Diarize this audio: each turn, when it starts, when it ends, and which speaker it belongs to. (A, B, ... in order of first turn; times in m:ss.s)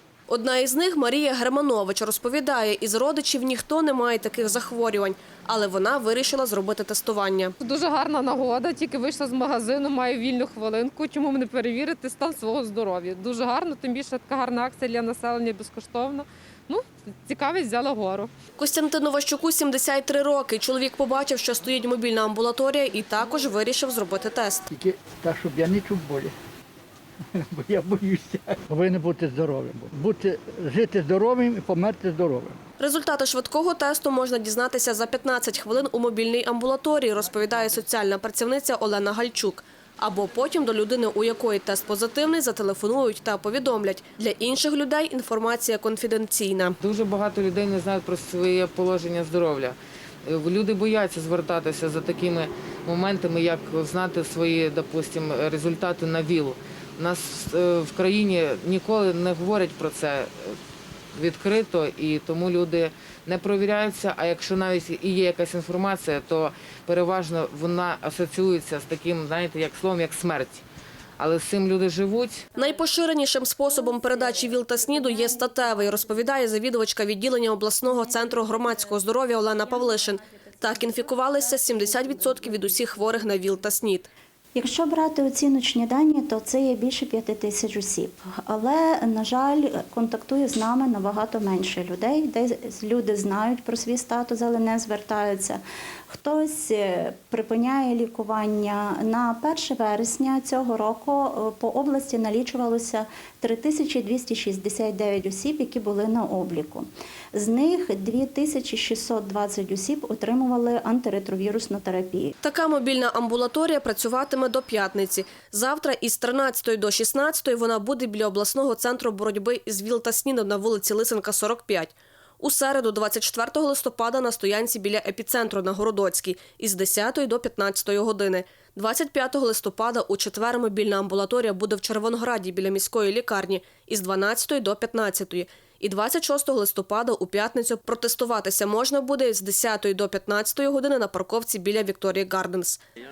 0:00.3-0:07.6 A
0:07.6-0:18.3 B
0:18.6-0:24.6 A
0:24.7-0:26.3 C
0:27.4-0:32.6 C
0:32.8-0:46.8 A
0:46.8-1:00.6 D
1:01.1-1:10.6 D
1:11.2-1:12.5 D
1:12.6-1:24.1 A
1:24.6-1:52.4 E
1:52.4-2:22.8 A